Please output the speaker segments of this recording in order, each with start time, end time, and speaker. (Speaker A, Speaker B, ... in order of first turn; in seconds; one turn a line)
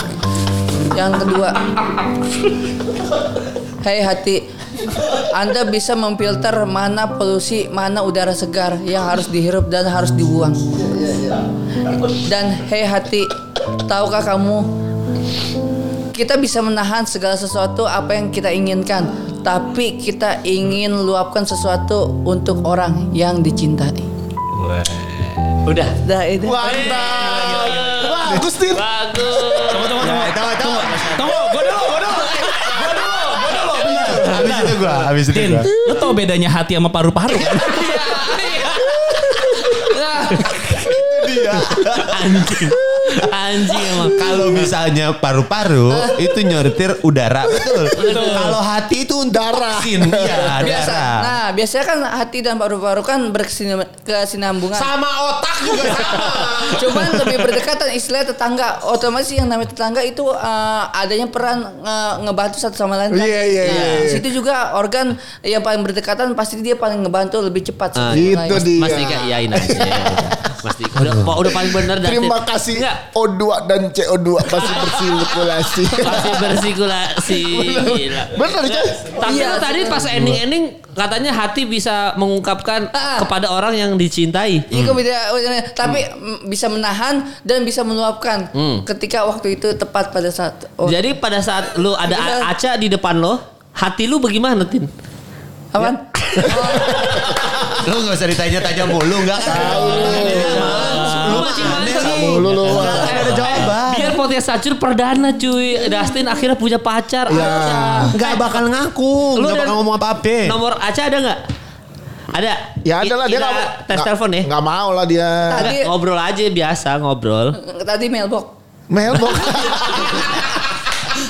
Speaker A: 0.9-1.6
Speaker A: 3.8-4.4
Speaker A: 5.2-10.6
Speaker A: 12.1-14.7
Speaker A: 16.1-24.1
Speaker B: 25.6-26.0
Speaker A: 26.0-27.0
Speaker C: 26.4-28.9
Speaker B: 26.6-30.1
Speaker D: 27.1-28.2
Speaker D: 29.7-38.4
Speaker E: 29.8-35.8
Speaker A: 37.7-38.8
Speaker A: 39.7-40.6
Speaker E: 40.5-42.7
Speaker B: 42.0-44.5
Speaker E: 43.9-51.3
Speaker A: 45.9-46.3
Speaker C: 47.6-47.9
Speaker D: 48.0-48.5
Speaker C: 49.3-50.7
Speaker A: 50.6-54.9
Speaker E: 54.7-57.5
Speaker A: 56.7-68.7
Speaker C: 63.1-64.2
Speaker B: 63.6-64.1
Speaker B: 67.9-73.0
Speaker C: 68.1-70.5
Speaker C: 71.4-76.7
Speaker B: 74.6-75.2
Speaker B: 76.0-84.7
Speaker C: 77.3-79.2
Speaker A: 79.2-80.2
Speaker A: 82.9-83.3
Speaker A: 84.7-91.0
Speaker E: 84.7-85.0
Speaker B: 88.5-88.8
Speaker B: 90.8-94.9
Speaker A: 92.1-92.5
Speaker A: 95.7-97.1
Speaker B: 96.4-96.7
Speaker E: 96.9-104.2
Speaker C: 99.4-100.7
Speaker A: 99.6-102.2
Speaker B: 99.7-108.6
Speaker D: 100.8-101.6
Speaker C: 102.0-103.3
Speaker C: 107.3-108.1
Speaker E: 108.1-110.6
Speaker B: 109.3-109.8
Speaker B: 110.4-111.4
Speaker B: 112.3-114.5
Speaker C: 112.8-115.7
Speaker A: 115.5-115.9
Speaker B: 115.6-117.6
Speaker A: 117.6-118.5
Speaker C: 118.9-120.4